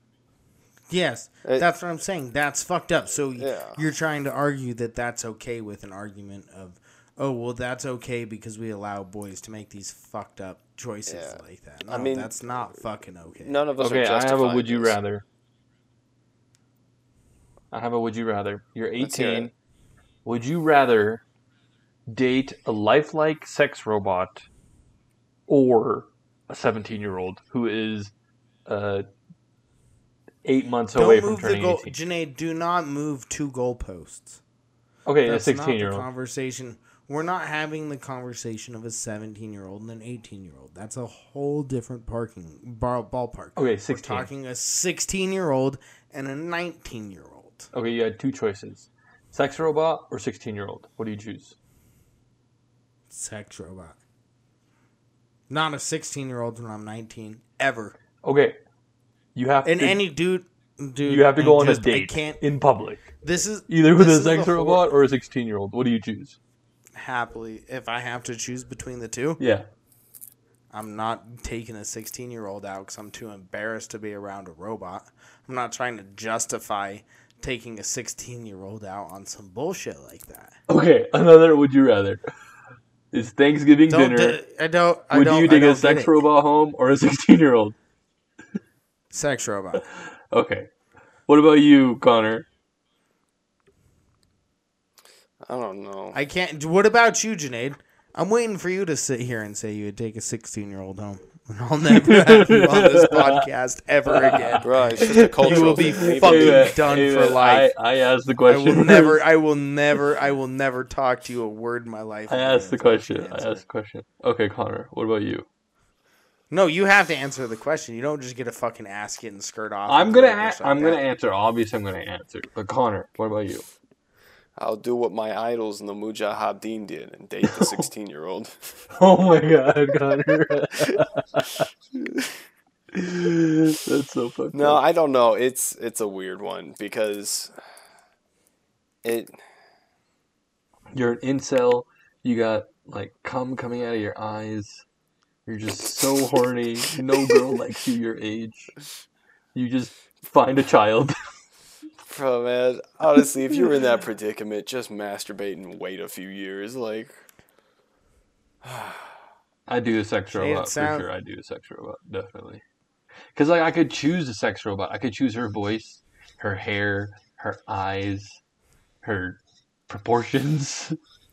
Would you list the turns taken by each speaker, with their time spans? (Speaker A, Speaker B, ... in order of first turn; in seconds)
Speaker A: 0.9-13.6, 30.9-34.4, 35.3-47.7, 53.1-54.0, 55.5-58.0, 59.6-62.4, 63.2-64.8, 67.0-69.4, 70.7-80.6, 83.9-86.2, 89.1-89.9, 96.1-107.7, 108.5-113.6, 116.5-121.0, 160.3-161.1
Speaker B: 3.4-3.8, 11.1-12.4, 13.4-15.0, 19.0-19.5, 95.5-96.2, 104.6-106.9, 124.6-128.7, 132.0-132.3, 134.5-137.5, 139.0-139.3, 152.1-157.2, 158.6-159.1
Speaker C: 13.8-15.2, 17.7-19.5, 20.2-21.2, 22.1-24.5, 25.5-28.1, 28.7-29.1, 30.4-32.0, 35.1-36.1, 43.6-44.3, 47.7-51.6, 58.2-58.6, 59.4-60.0, 61.1-63.1, 63.7-66.4, 69.4-69.7, 80.7-82.3, 83.1-84.4, 85.1-87.8, 89.9-90.7, 91.3-92.5, 101.9-103.4, 104.1-109.2, 112.3-115.5, 119.9-123.7, 127.5-127.8, 128.9-131.7, 132.9-134.8, 140.9-144.8, 145.5-148.7, 149.5-151.4, 159.7-162.6, 163.3-168.4, 169.0-171.0